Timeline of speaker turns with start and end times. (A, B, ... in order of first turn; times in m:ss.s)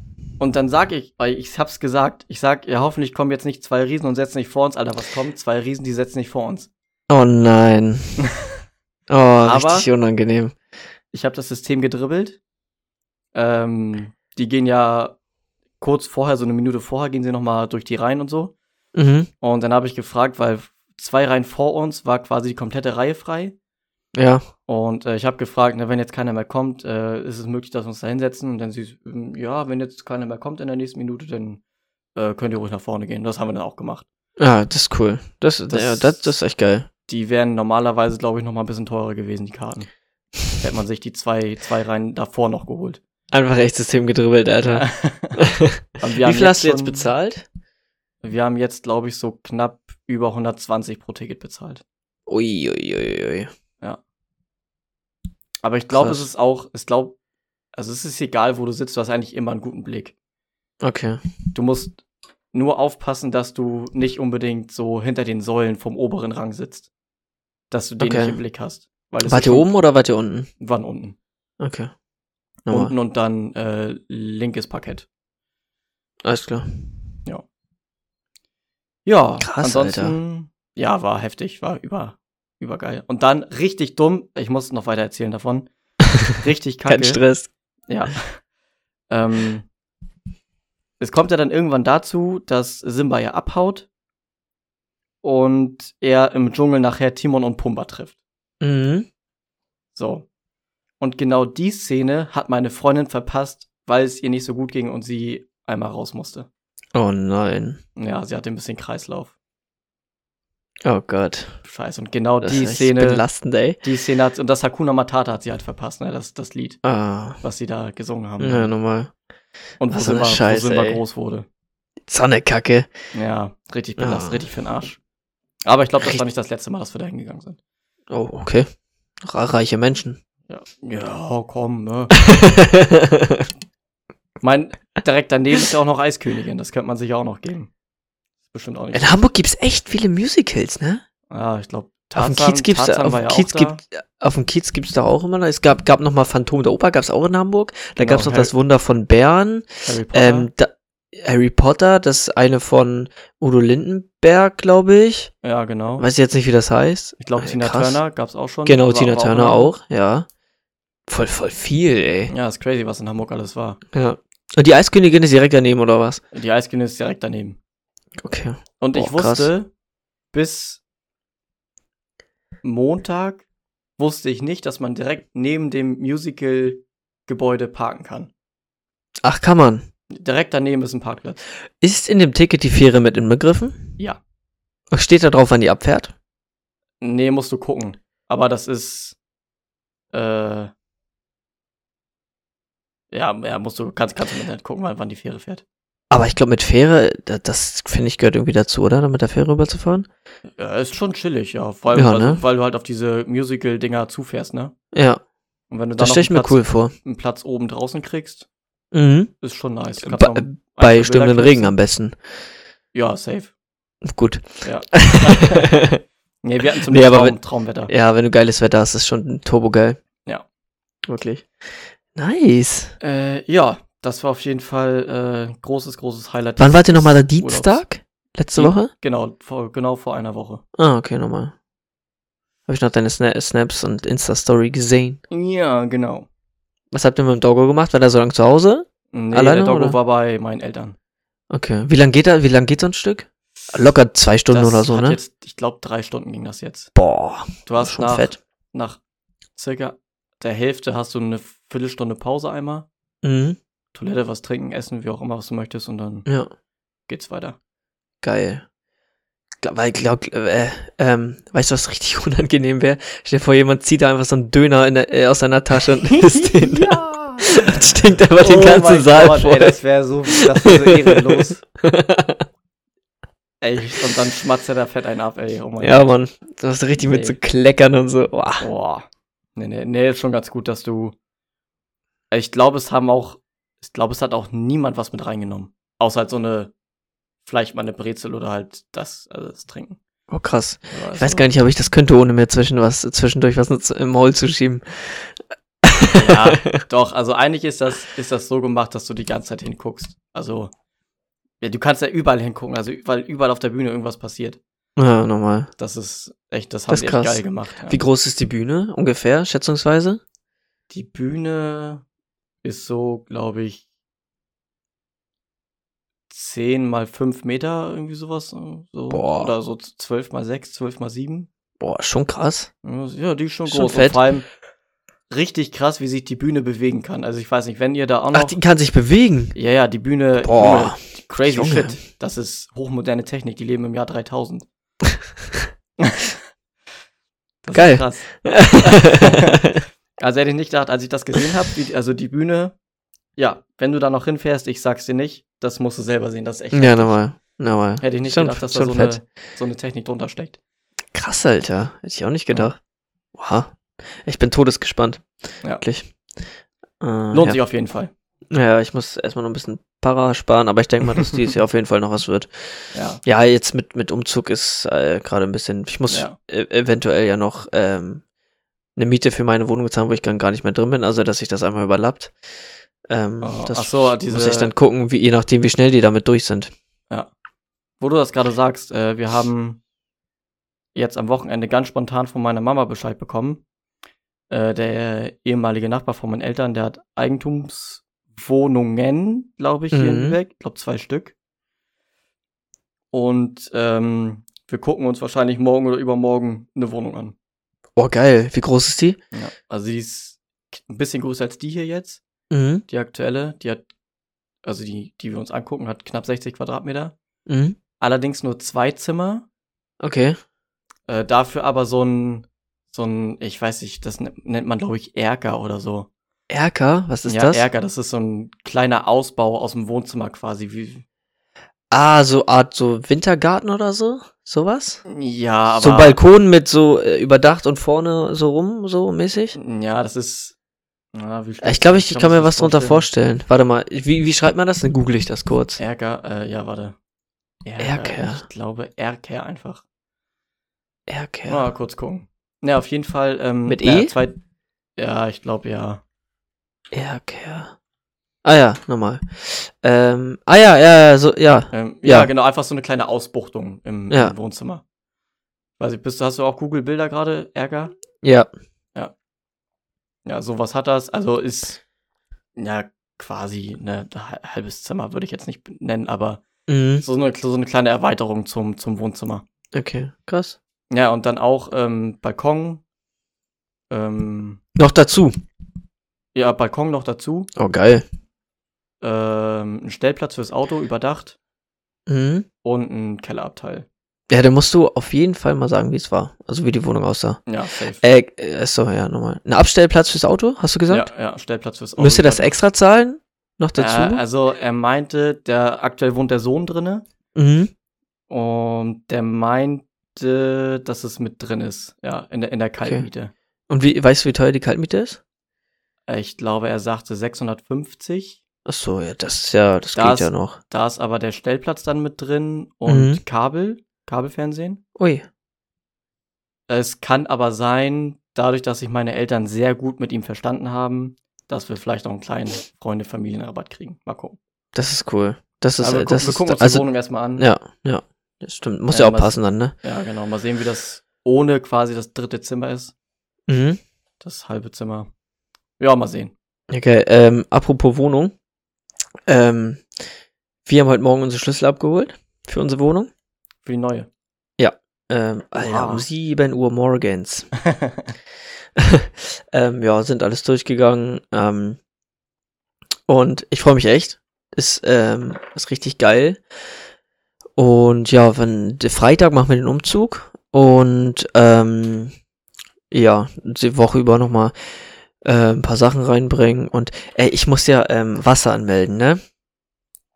0:00.4-0:06.7 A
0:07.1-0:08.2 B
0:09.1-0:10.5 B
0:09.4-0:09.9 A
0:11.1-0:12.4 A
0:13.3-0:15.2 A
0:15.8-0:18.5 A
0:18.9-0:19.3 B
0:19.4-0:23.5 A
0:24.1-0:24.4 B
0:24.7-0:31.6 A
0:32.2-0:34.0 A
0:34.4-0:36.9 B
0:35.7-0:36.3 A
0:37.1-0:39.9 A
0:40.5-0:43.0 A
0:43.3-0:47.4 B
0:44.6-0:47.1 A
0:48.2-0:51.8 A
0:52.3-0:53.5 B
0:55.6-0:57.2 A
0:55.9-0:56.2 B
0:57.7-1:00.1 A
1:00.8-1:01.2 B
1:01.5-1:02.0 A
1:02.5-1:06.9 A
1:07.7-1:09.7 A
1:08.0-1:08.4 B
1:09.2-1:10.5 B
1:10.6-1:11.2 A
1:11.6-1:11.9 B
1:12.6-1:12.9 B
1:12.7-1:15.1 A
1:16.2-1:16.9 B
1:19.0-1:25.7 A
1:19.4-1:20.1 B
1:26.3-1:27.2 A
1:26.9-1:27.5 B
1:27.9-1:28.4 A
1:29.1-1:29.7 A
1:31.0-1:33.9 A
1:35.2-1:38.2 A
1:38.6-1:39.1 B
1:39.9-1:40.2 A
1:41.0-1:46.5 A
1:46.9-1:47.8 B
1:48.0-1:49.3 A
1:50.8-1:51.5 B
1:51.6-1:53.2 A
1:52.4-1:53.8 B
1:53.8-1:56.8 A
1:56.8-1:57.4 B
1:57.4-1:58.7 A
1:58.4-1:59.1 B
1:59.8-2:01.4 A
1:59.9-2:01.0 B
2:02.1-2:02.9 B
2:03.1-2:05.0 A
2:04.0-2:04.4 B
2:05.6-2:07.6 A
2:08.1-2:08.7 B
2:09.2-2:10.2 B
2:10.5-2:12.1 A
2:12.1-2:13.5 B
2:14.4-2:17.7 A
2:18.5-2:19.1 A
2:18.9-2:21.0 B
2:21.3-2:23.8 A
2:22.1-2:35.3 B
2:28.0-2:28.5 A
2:29.8-2:30.5 A
2:35.4-2:36.0 A
2:36.0-2:38.0 B
2:37.2-2:39.7 A
2:38.6-2:40.3 B
2:41.1-2:42.3 B
2:42.3-2:43.8 A
2:43.9-2:46.2 B
2:46.3-2:47.6 A
2:48.2-2:49.5 B
2:48.8-2:49.7 A
2:50.3-2:50.8 A
2:52.6-2:53.4 A
2:54.0-2:58.3 A
2:59.2-2:59.8 B
3:00.1-3:01.4 A
3:01.8-3:03.9 B
3:04.9-3:06.1 B
3:07.0-3:09.2 A
3:10.1-3:10.7 A
3:13.1-3:15.6 A
3:16.1-3:20.1 B
3:20.6-3:24.7 A
3:21.9-3:22.4 B
3:24.9-3:25.2 B
3:25.7-3:28.5 A
3:26.0-3:26.9 B
3:28.9-3:29.3 B
3:29.4-3:31.7 A
3:30.0-3:32.1 B
3:32.9-3:33.5 A
3:34.0-3:36.0 B
3:34.6-3:35.7 A
3:36.4-3:37.9 A
3:36.9-3:40.0 B
3:41.1-3:41.5 B
3:42.1-3:42.9 B
3:43.0-3:47.8 A
3:46.6-3:48.9 B
3:48.5-3:50.6 A
3:50.8-3:51.5 B
3:52.7-3:55.2 B
3:55.3-3:56.3 A
3:56.9-4:00.0 B
3:59.1-4:01.0 A
4:01.5-4:05.2 B
4:04.5-4:06.9 A
4:07.0-4:08.4 B
4:07.6-4:09.0 A
4:09.6-4:12.9 A
4:13.2-4:13.6 B
4:13.9-4:16.2 A
4:16.2-4:16.5 B
4:17.1-4:17.6 A
4:18.2-4:18.6 B
4:19.6-4:29.8 B
4:26.1-4:31.6 A
4:30.6-4:32.4 B
4:33.6-4:36.1 A
4:35.8-4:38.6 B
4:37.0-4:37.4 A
4:38.6-4:41.1 A
4:42.3-4:46.7 A
4:47.4-4:50.0 A
4:50.3-4:56.8 B
4:50.9-4:51.5 A
4:56.1-5:00.7 A
5:01.6-5:04.6 A
5:05.0-5:05.7 B
5:05.8-5:08.0 A
5:06.9-5:10.2 B
5:10.9-5:12.0 A
5:12.6-5:13.8 A
5:16.3-5:21.5 A
5:19.1-5:19.5 B
5:21.8-5:22.7 B
5:22.8-5:24.4 A
5:23.7-5:24.2 B
5:25.3-5:28.6 A
5:28.3-5:29.6 B
5:29.5-5:34.6 A
5:30.4-5:32.0 B
5:36.0-5:36.3 A
5:37.6-5:39.6 A
5:37.7-5:39.8 B
5:40.2-5:42.7 A
5:43.4-5:47.2 A
5:46.7-5:49.2 B
5:48.0-5:50.6 A
5:51.1-5:52.8 B
5:53.4-5:55.2 B
5:55.8-5:56.1 B
5:57.0-5:57.6 B
5:57.3-5:58.1 A
5:58.5-6:02.5 B
6:02.9-6:03.2 A
6:03.2-6:08.2 B
6:06.1-6:06.4 A
6:09.0-6:12.3 B
6:13.1-6:16.7 B
6:13.4-6:14.7 A
6:18.0-6:19.8 A
6:20.9-6:23.6 A
6:24.5-6:31.3 A
6:29.9-6:30.4 B
6:33.1-6:37.3 A
6:38.0-6:39.2 B
6:39.3-6:42.2 A
6:42.5-6:42.8 B
6:42.9-6:43.8 A
6:44.6-6:47.1 A
6:47.5-6:47.8 B
6:48.0-6:49.5 A
6:50.0-6:50.4 B
6:51.1-6:56.1 A
6:56.5-6:57.6 B
6:57.2-7:01.0 A
7:01.9-7:05.0 B
7:05.0-7:06.2 A
7:05.8-7:09.6 B
7:09.5-7:10.6 A
7:11.1-7:13.0 A
7:11.6-7:15.8 B
7:15.8-7:17.0 A
7:17.6-7:19.8 A
7:17.8-7:18.4 B
7:21.1-7:21.6 B
7:21.5-7:24.4 A
7:23.6-7:24.2 B
7:25.0-7:26.0 A
7:26.9-7:27.7 B
7:28.4-7:32.3 B
7:31.7-7:34.8 A
7:35.8-7:37.9 A
7:38.2-7:38.5 B
7:40.2-7:41.8 A
7:42.6-7:46.4 A
7:46.7-7:47.0 B
7:47.0-7:49.4 A
7:49.7-7:50.6 B
7:50.9-7:52.8 A
7:53.9-7:54.6 A
7:54.8-7:55.4 B
7:56.3-7:57.5 A
7:57.6-7:58.0 B
7:59.0-8:01.4 A
8:02.1-8:02.4 B
8:02.6-8:03.9 A
8:04.3-8:07.4 B
8:07.5-8:08.0 A
8:08.0-8:11.1 B
8:10.9-8:12.5 A
8:12.0-8:14.2 B
8:13.8-8:17.0 A
8:17.3-8:17.7 B
8:18.3-8:23.3 A
8:23.7-8:25.2 B
8:26.1-8:28.4 A
8:28.6-8:30.6 B
8:29.9-8:34.8 A
8:32.9-8:33.2 B
8:35.0-8:35.2 B
8:36.7-8:44.4 A
8:44.7-8:46.8 B
8:45.8-8:47.4 A
8:47.4-8:49.7 B
8:48.9-8:52.9 A
8:53.5-8:53.8 B
8:54.2-8:55.1 A
8:55.8-8:56.3 A
8:56.7-8:58.3 B
8:59.3-8:59.8 B
9:00.6-9:03.1 B
9:03.6-9:04.1 A
9:04.6-9:07.5 B
9:05.6-9:06.0 A
9:07.6-9:08.1 A
9:08.8-9:11.8 B
9:13.1-9:16.4 B
9:17.6-9:22.1 B
9:22.9-9:24.5 B
9:25.2-9:29.2 B